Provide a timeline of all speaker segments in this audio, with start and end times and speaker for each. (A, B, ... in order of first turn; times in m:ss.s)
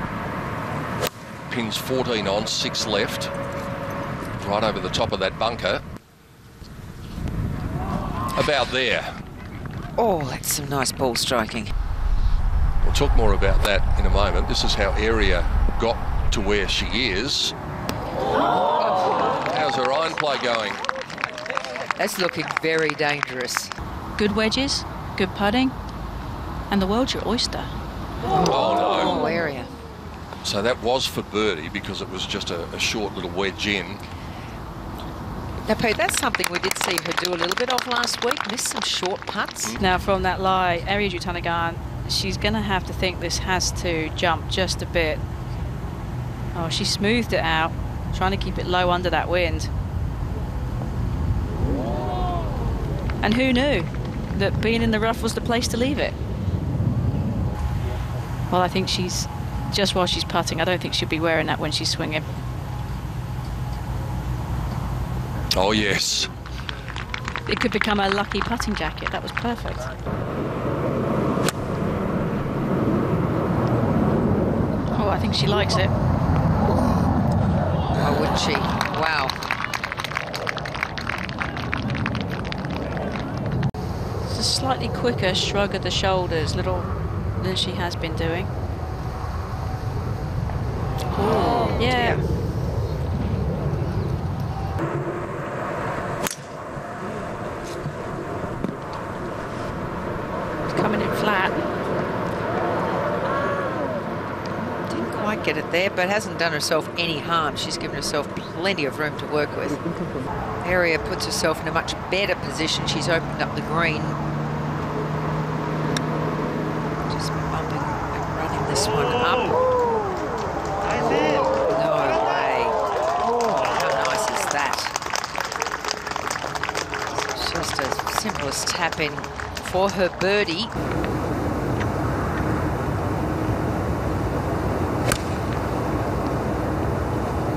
0:01.5-0:03.3 A
0:04.4-0:05.8 A
0:08.4-0:09.1 A
0:10.0-0:11.7 B
0:12.8-0:17.5 A
0:18.8-0:19.4 B
0:19.5-0:20.8 A
0:22.0-0:23.7 B
0:24.2-0:25.7 C
0:26.7-0:27.7 C
0:28.4-0:29.2 A
0:28.8-0:29.7 B
0:30.4-0:34.0 A
0:35.7-0:39.8 B
0:39.8-0:45.2 C
0:46.5-0:49.7 C
0:53.2-0:56.2 C
0:58.5-1:02.3 C
1:05.5-1:06.3 A
1:07.5-1:09.9 C
1:15.0-1:15.9 C
1:18.0-1:19.4 B
1:24.2-1:28.5 C
1:31.2-1:32.2 B
1:31.7-1:32.2 C
1:40.7-1:41.6 C
1:44.9-1:49.9 B
1:50.6-1:54.2 B
1:57.0-1:59.6 B
2:01.2-2:02.8 B
2:03.5-2:04.9 B
2:07.1-2:10.7 B